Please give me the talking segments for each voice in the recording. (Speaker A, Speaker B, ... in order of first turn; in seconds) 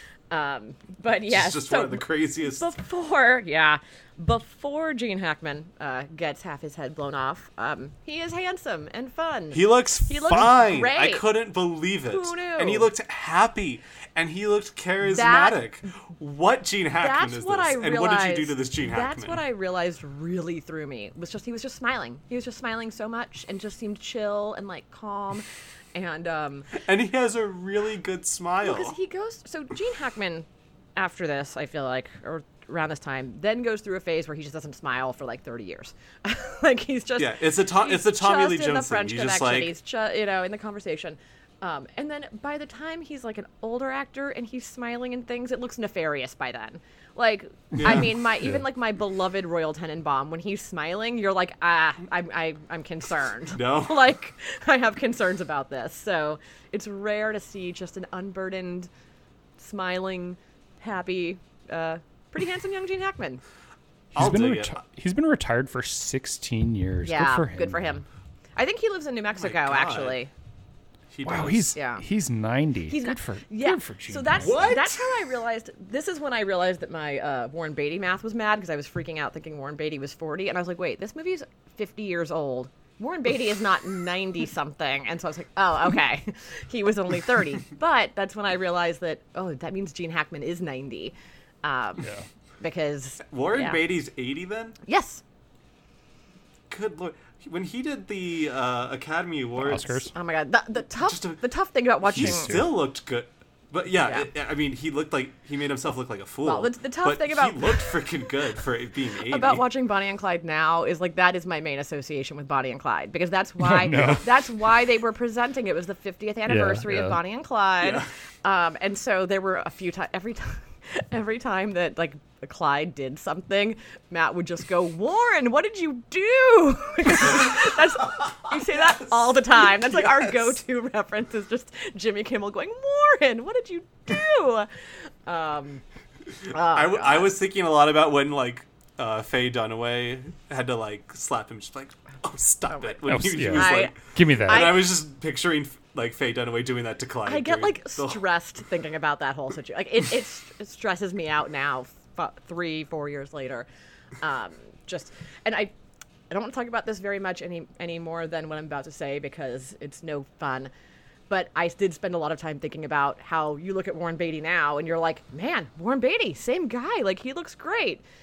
Speaker A: 0.3-11.2, 12.1-12.9, 15.1-15.7, 17.0-26.7, 28.6-58.9, 59.6-63.4, 67.0-68.0, 68.6-70.3, 71.8-72.0, 72.9-92.1, 92.6-93.8, 94.9-95.2, 100.1-102.6, 106.4-108.0, 109.3-134.7, 135.3-135.8, 136.5-137.3, 142.7-144.9, 147.3-153.7, 154.2-155.7, 156.3-160.7, 161.3-168.0
Speaker B: 1.3-2.7, 9.5-19.4, 26.8-29.0, 37.2-39.7, 47.7-48.1, 53.5-54.0, 64.2-64.8, 69.3-70.2, 71.1-71.7, 74.4-75.1, 93.3-94.8, 96.7-100.0, 101.0-101.4, 102.1-109.7, 117.8-118.1, 136.6-148.2
Speaker C: 47.8-48.6, 64.1-68.0, 71.2-74.6, 99.6-100.1, 102.2-102.7, 113.6-114.3, 116.5-117.2, 143.1-144.9